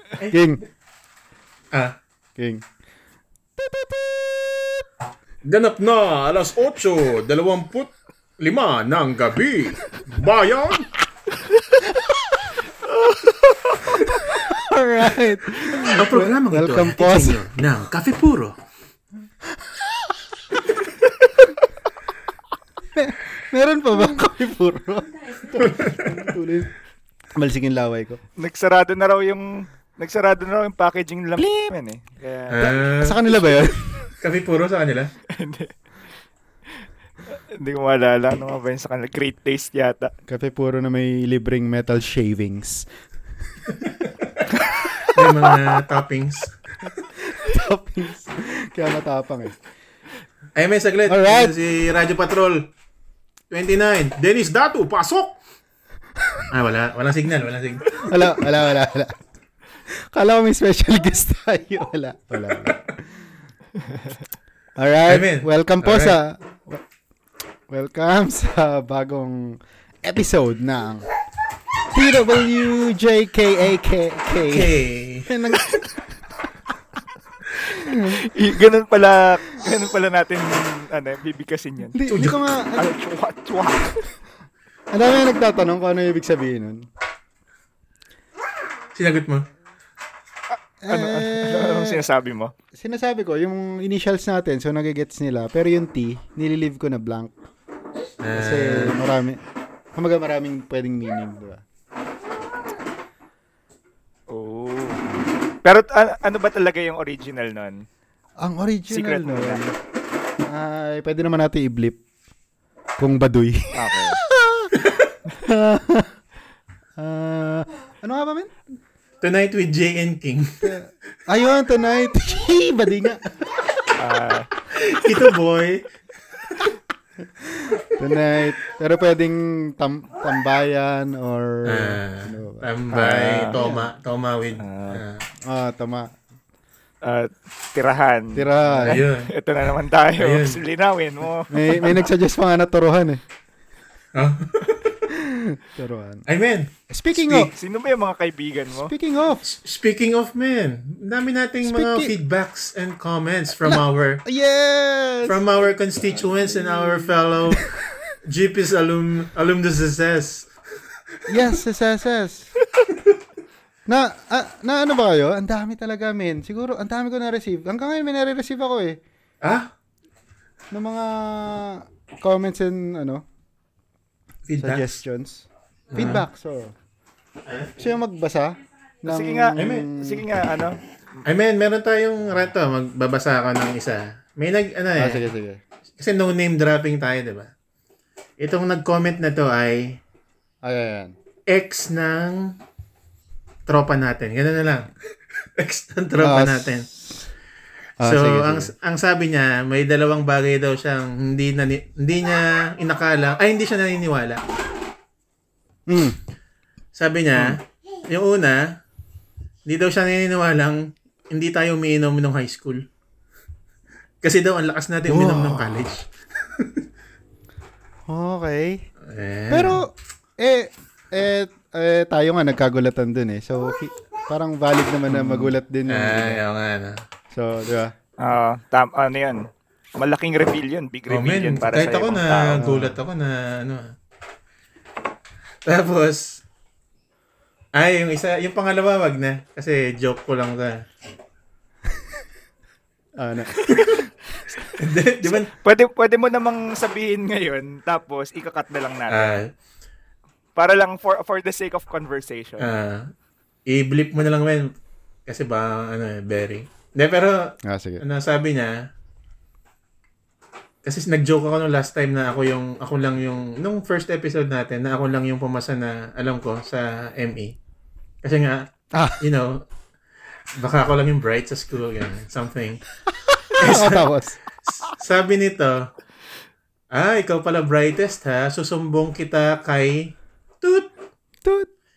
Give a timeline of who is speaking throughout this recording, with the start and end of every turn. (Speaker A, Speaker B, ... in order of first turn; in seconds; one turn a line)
Speaker A: 0.2-0.4
Speaker B: 0.3-0.6
Speaker B: 2.4-2.6
Speaker B: 3.6-4.8
Speaker A: 5.4-11.0
Speaker C: 13.0-13.8
Speaker B: 13.8-17.4
Speaker A: 15.8-18.5
Speaker B: 19.5-20.0
Speaker B: 22.9-26.7
Speaker A: 25.6-26.1
Speaker B: 27.4-28.2
Speaker C: 28.4-32.6
Speaker A: 32.5-33.2
Speaker B: 32.6-34.1
Speaker A: 34.2-35.1
Speaker C: 35.3-35.7
Speaker C: 37.5-40.1
Speaker B: 40.3-42.9
Speaker A: 43.8-44.1
Speaker A: 45.0-46.5
Speaker B: 47.1-49.5
Speaker A: 50.5-52.7
Speaker B: 51.1-51.5
Speaker A: 53.5-55.3
Speaker A: 56.5-58.4
Speaker B: 58.0-59.2
Speaker B: 59.9-63.2
Speaker C: 63.9-64.1
Speaker B: 64.8-66.8
Speaker A: 65.0-66.2
Speaker B: 67.7-71.1
Speaker B: 71.9-76.3
Speaker A: 74.4-75.3
Speaker B: 77.6-78.2
Speaker C: 77.8-82.0
Speaker B: 81.9-82.9
Speaker A: 82.1-82.4
Speaker C: 82.7-84.1
Speaker B: 84.9-86.9
Speaker A: 88.9-89.5
Speaker C: 90.5-92.5
Speaker B: 90.8-92.0
Speaker B: 92.7-97.4
Speaker A: 98.2-99.0
Speaker B: 98.3-99.4
Speaker B: 99.9-101.6
Speaker C: 104.3-105.0
Speaker C: 105.6-107.8
Speaker B: 108.4-109.7
Speaker C: 108.9-109.6
Speaker B: 110.4-112.0
Speaker B: 113.0-114.7
Speaker C: 113.7-114.2
Speaker A: 114.8-115.1
Speaker B: 115.4-116.2
Speaker B: 117.0-118.5
Speaker A: 119.2-120.7
Speaker B: 120.6-123.5
Speaker C: 124.0-124.5
Speaker A: 124.7-125.8
Speaker B: 127.2-133.9
Speaker A: 131.7-135.2
Speaker C: 134.6-135.0
Speaker B: 135.4-136.2
Speaker C: 137.0-142.0
Speaker B: 138.3-139.0
Speaker A: 138.7-139.3
Speaker A: 140.2-140.6
Speaker B: 141.5-143.2
Speaker A: 144.1-145.0
Speaker B: 145.1-146.2
Speaker A: 146.3-146.7
Speaker B: 146.9-147.5
Speaker C: 147.3-148.9
Speaker B: 148.7-149.4
Speaker A: 149.4-154.2
Speaker B: 151.6-152.1
Speaker B: 153.5-155.6
Speaker A: 155.2-157.6
Speaker A: 158.2-160.5
Speaker B: 161.3-162.5
Speaker B: 163.9-169.0
Speaker A: 169.4-169.7
Speaker B: 170.7-173.2
Speaker A: 174.5-174.9
Speaker B: 174.6-176.7
Speaker A: 175.9-176.2
Speaker A: 177.4-177.7
Speaker B: 177.8-180.2
Speaker C: 179.1-180.8
Speaker A: 179.6-179.8
Speaker A: 181.2-185.2
Speaker B: 185.0-185.6
Speaker A: 186.0-187.5
Speaker A: 188.4-190.0
Speaker B: 190.6-191.2
Speaker A: 191.5-192.6
Speaker A: 193.7-194.9
Speaker A: 195.6-196.8
Speaker B: 196.2-197.3
Speaker B: 198.0-198.7
Speaker A: 198.0-204.4
Speaker B: 205.9-206.2
Speaker A: 206.9-208.8
Speaker A: 209.7-212.8
Speaker A: 214.2-216.7
Speaker B: 215.1-215.9
Speaker B: 218.1-218.8
Speaker A: 219.0-219.8
Speaker B: 219.5-226.4
Speaker A: 225.1-227.0
Speaker B: 227.3-227.9
Speaker C: 228.2-229.5
Speaker C: 230.0-232.6
Speaker A: 231.1-233.9
Speaker B: 232.6-233.0
Speaker A: 235.7-236.4
Speaker A: 237.7-240.8
Speaker B: 243.2-244.1
Speaker A: 244.7-245.5
Speaker C: 245.2-249.4
Speaker A: 249.1-249.5
Speaker C: 250.6-252.7
Speaker A: 252.6-253.1
Speaker A: 253.7-254.7
Speaker A: 255.3-258.9
Speaker B: 257.6-258.0
Speaker A: 260.8-267.5
Speaker A: 268.2-268.7
Speaker B: 268.9-269.2
Speaker A: 269.2-269.6
Speaker A: 270.5-272.8
Speaker B: 273.3-274.4
Speaker A: 273.6-274.1
Speaker A: 274.6-275.9
Speaker A: 276.9-280.9
Speaker B: 281.4-281.7